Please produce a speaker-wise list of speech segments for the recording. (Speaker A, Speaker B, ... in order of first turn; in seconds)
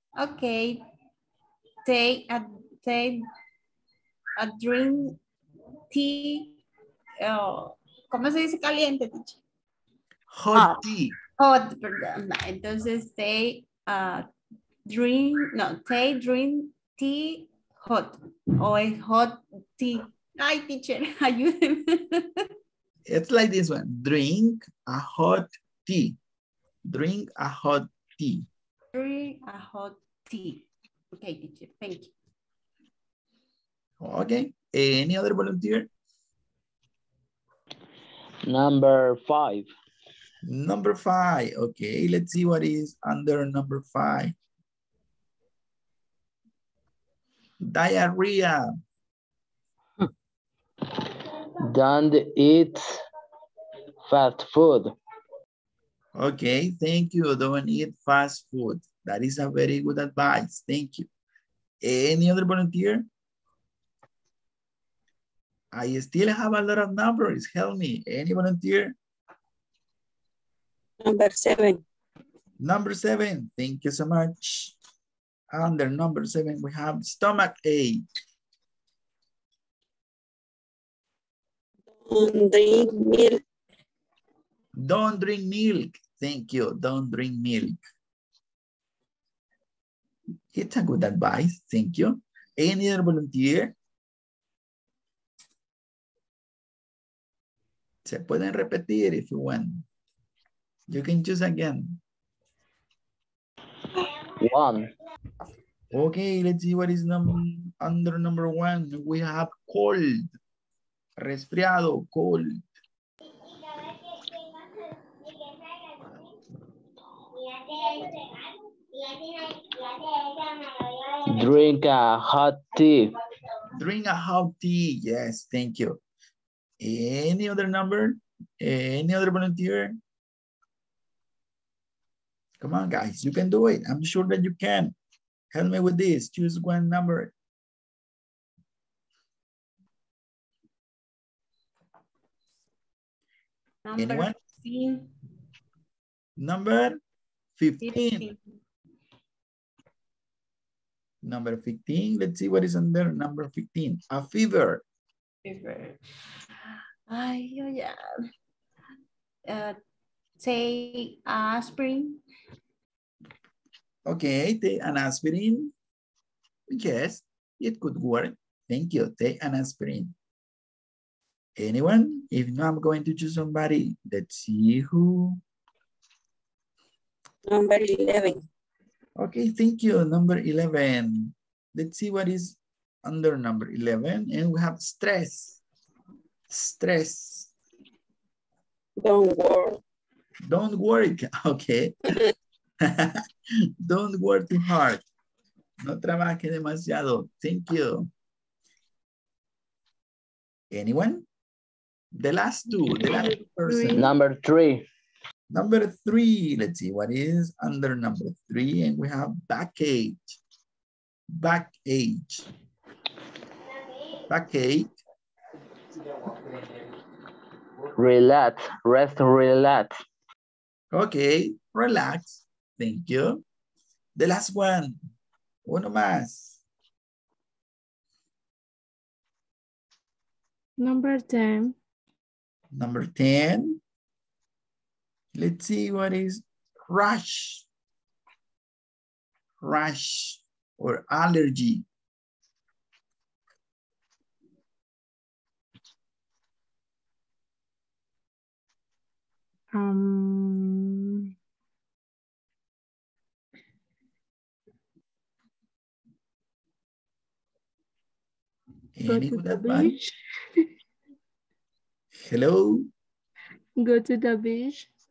Speaker A: 0.2-0.8, 1.8-3.2, 4.4-5.2, 5.9-6.6, 7.2-9.4, 10.5-10.8, 11.4-14.2, 14.9-22.5, 28.9-32.1, 143.8-145.1, 147.8-148.4, 155.4-156.0, 156.7-158.0, 159.5-159.8, 160.4-162.2
Speaker B: 10.3-11.1, 23.1-26.2, 26.9-28.5, 34.0-35.9, 40.4-44.3, 47.6-48.7, 56.1-61.1, 61.8-63.1, 65.7-69.0, 72.6-74.7, 75.5-78.0, 84.8-87.8, 90.5-93.7, 98.0-99.8, 100.9-102.0, 105.9-110.3, 111.2-112.6, 123.7-126.0, 126.8-130.0, 132.6-134.9, 135.5-137.3, 144.0-144.3, 146.4-147.0, 147.6-148.3, 151.2-154.8, 164.1-165.7, 166.7-170.1, 171.6-175.4, 179.2-185.6, 186.5-187.5, 190.4-191.9, 192.8-193.2, 193.8-195.0, 195.8-198.1, 200.7-201.2, 202.1-204.1, 205.5-210.4, 211.3-212.5, 214.3-214.9, 220.9-223.4, 224.2-225.0, 225.7-226.6, 232.7-233.8, 235.3-237.6, 239.6-241.8, 258.9-260.0, 262.1-262.9
Speaker C: 38.5-39.7, 51.6-53.0, 54.0-54.9, 104.0-104.9, 121.2-123.1, 203.9-204.8, 217.9-220.0
Speaker D: 71.0-71.8, 81.9-83.4, 177.4-178.4, 189.0-189.8
Speaker E: 202.7-204.1, 230.8-231.7, 249.7-251.3, 259.0-260.1, 263.8-264.9